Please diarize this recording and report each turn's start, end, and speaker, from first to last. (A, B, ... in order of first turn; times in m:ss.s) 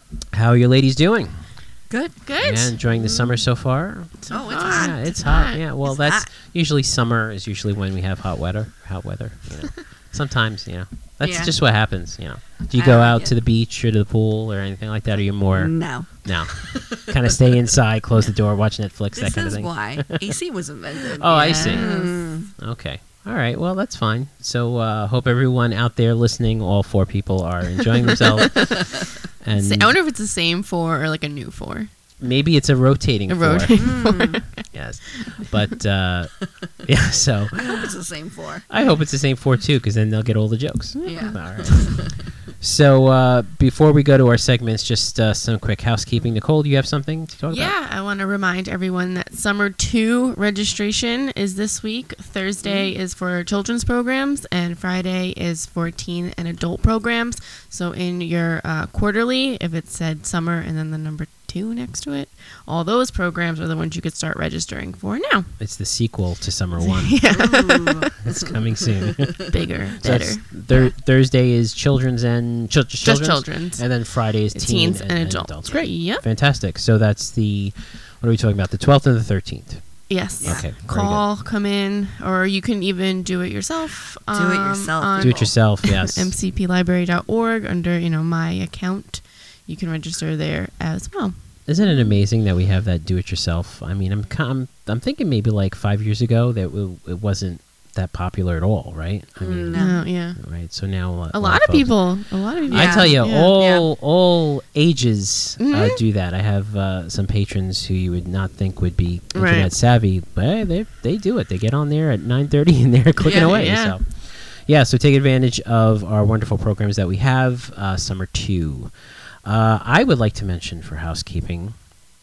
0:00.3-0:01.4 A
0:01.9-0:02.2 B
0:02.2-0:03.1 C
0:02.4-0:20.2 A
0:04.2-0:05.6 C
0:04.3-0:06.3 B
0:11.2-0:11.5 B
0:12.7-0:13.3 B
0:15.5-0:17.1 B
0:19.2-0:22.5 B
0:21.2-0:21.9 A
0:21.5-0:22.1 C
0:22.6-0:30.0 A
0:28.1-0:28.9 C
0:28.5-0:28.8 B
0:29.5-0:31.9 C
0:32.2-0:34.0 A
0:33.3-0:35.6 C
0:33.8-0:34.4 B
0:34.7-0:37.9 A
0:37.6-0:38.7 B
0:38.7-0:47.7 A
0:41.0-0:41.9 C
0:41.0-0:42.2 B
0:47.5-1:05.5 C
0:52.6-0:52.9 B
1:05.6-1:07.2 A
1:06.8-1:08.1 C
1:07.3-1:09.5 B
1:08.2-1:21.3 A
1:09.5-1:10.9 C
1:13.0-1:16.3 C
1:20.1-1:32.2 C
1:20.4-1:20.7 B
1:24.3-1:25.5 B
1:25.2-1:26.3 A
1:31.7-1:42.1 A
1:39.4-1:40.1 B
1:39.7-1:40.4 C
1:41.3-1:43.5 C
1:42.7-1:58.9 A
1:42.7-1:43.9 B
1:45.6-1:46.0 C
1:49.3-1:49.7 C
1:53.2-1:53.7 B
1:53.3-1:54.0 C
1:59.4-2:01.8 A